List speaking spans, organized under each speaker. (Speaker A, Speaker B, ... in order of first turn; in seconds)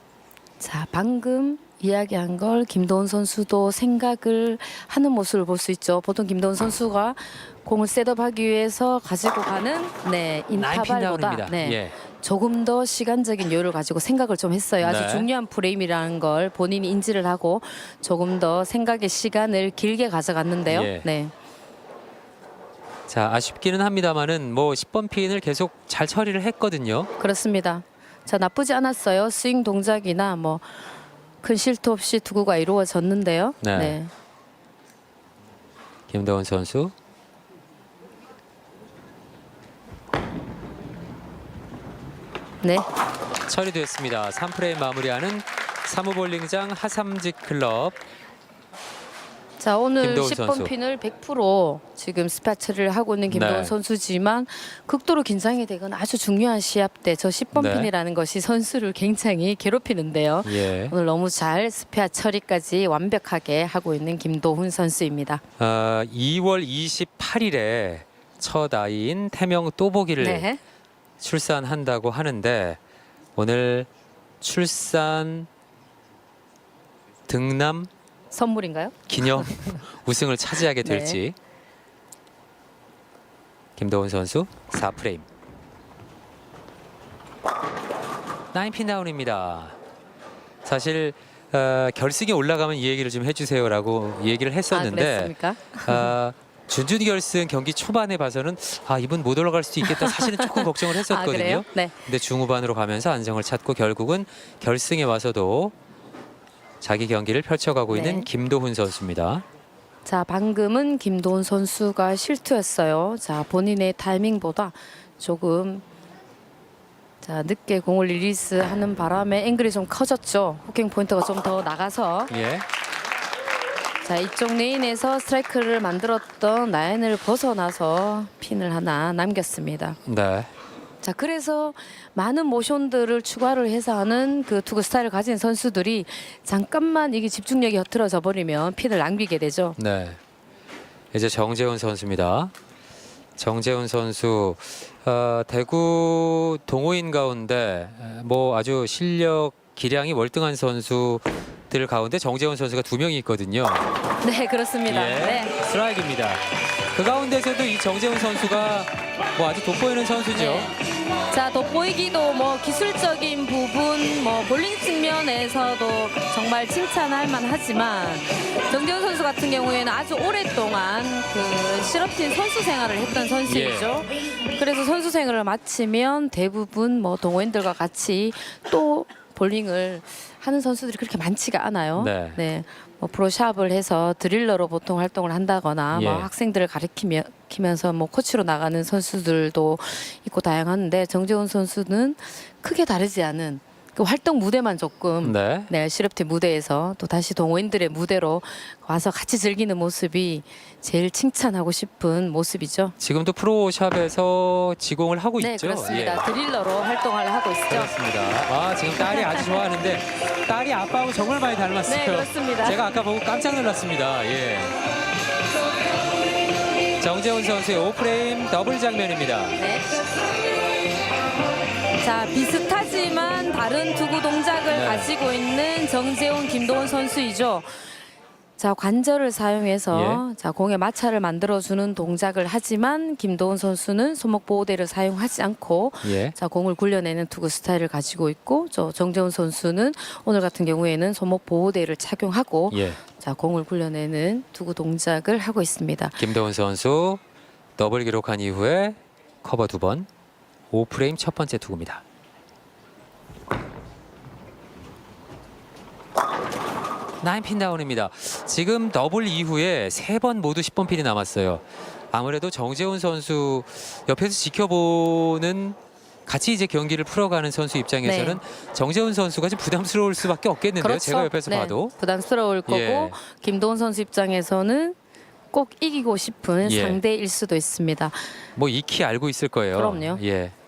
Speaker A: 0.6-21.3, 27.2-30.9, 31.4-34.1, 49.6-65.4, 70.2-70.6, 78.3-78.9, 80.8-81.2, 94.7-96.1, 99.8-101.9, 107.9-108.3, 110.0-115.8, 117.2-122.3, 124.0-130.0, 131.0-139.8, 154.2-155.5, 160.3-160.8, 161.3-202.9, 205.4-207.9, 209.2-209.5, 211.8-212.8, 219.6-219.9, 222.0-227.8, 228.6-246.2, 268.0-268.4, 270.8-274.9, 275.5-278.4, 279.7-280.2
Speaker B: 10.5-11.9, 14.8-15.3, 20.7-21.1, 23.1-27.1, 33.6-34.0, 36.1-36.9, 43.5-48.0, 50.0-50.7, 53.3-53.7, 57.5-57.9, 60.4-60.9, 65.6-70.5, 71.2-72.8, 73.3-73.9, 74.4-75.5, 77.3-77.9, 79.1-81.3, 83.8-85.2, 88.5-89.8, 90.6-95.3, 95.8-105.7, 106.8-109.4, 122.3-122.7, 130.1-130.5, 139.8-140.2, 141.1-142.5, 143.4-153.9, 154.9-156.4, 156.9-160.7, 173.4-173.9, 181.9-182.4, 185.9-186.3, 195.2-195.7, 203.0-206.2, 207.7-214.8, 217.0-219.6, 224.7-225.1, 229.9-230.2, 236.0-236.3, 242.7-243.0, 246.2-247.2, 247.8-250.1, 250.7-252.0, 257.2-271.9, 272.6-273.1, 276.6-277.0, 278.6-280.5